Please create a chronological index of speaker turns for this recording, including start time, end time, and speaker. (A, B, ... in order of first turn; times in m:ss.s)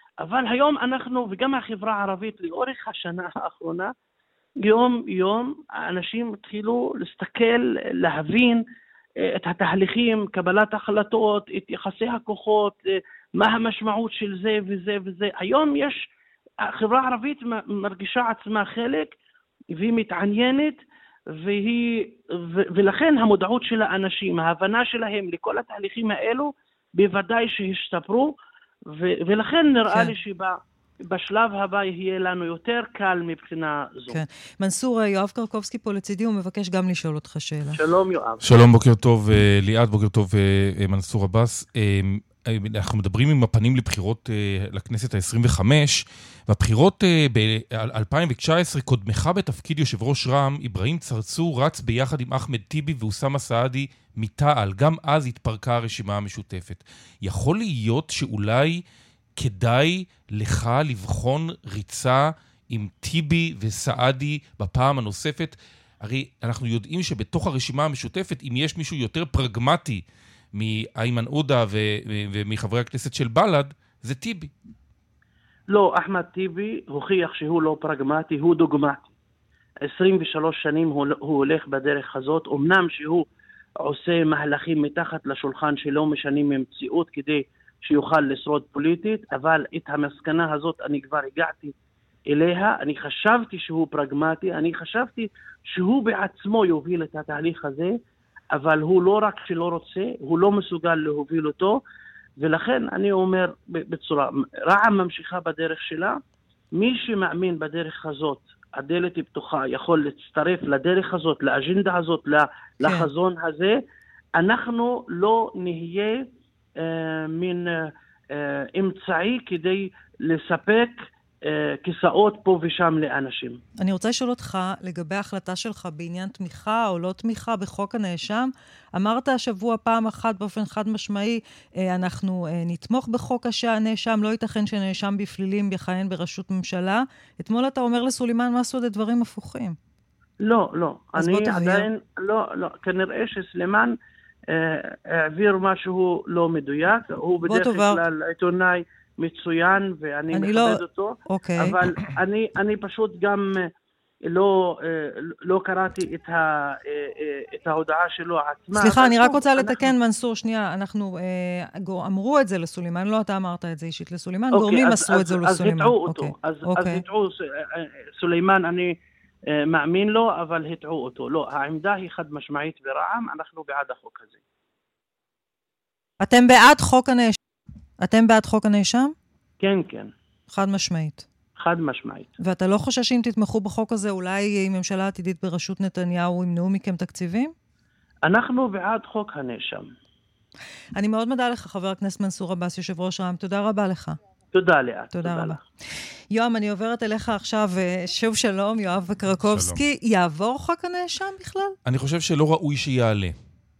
0:00.2-0:03.9 A
0:04.6-0:08.6 A
0:09.2-0:16.1 A
0:16.6-0:19.1 A
0:19.7-0:20.8 A
0:21.3-0:28.3 A
0:28.9-0:34.2 A
0:34.1-0:37.8 B
0:37.7-0:38.5 A
0:38.4-0:58.8 C
0:59.4-1:10.0 C
1:10.5-1:14.5 C
1:15.7-1:19.1 A
1:19.8-1:23.2 A
1:23.8-1:31.7 A
1:32.3-1:38.0 A
1:38.5-1:41.8 A
1:42.4-1:46.2 A
1:46.7-1:53.8 A
1:52.8-1:53.1 B
1:54.3-1:56.2 A
1:56.8-2:03.6 A
2:03.8-2:19.8 B
2:20.4-2:24.0 A
2:21.2-2:21.9 B
2:24.5-2:33.7 A
2:27.4-2:28.0 B
2:30.3-2:31.9 B
2:34.2-2:39.9 A
2:38.7-2:47.0 B
2:44.5-2:49.0 A
2:49.5-2:54.4 A
2:56.2-2:57.3 B
2:58.0-2:59.1 B
2:59.6-3:00.1 A
3:00.5-3:01.3 B
3:01.6-3:02.3 A
3:02.4-3:07.5 B
3:08.2-3:09.9 A
3:11.0-3:14.2 B
3:14.5-3:15.6 A
3:15.1-3:15.6 B
3:16.3-3:21.7 B
3:19.3-3:19.8 C
3:21.8-3:23.3 C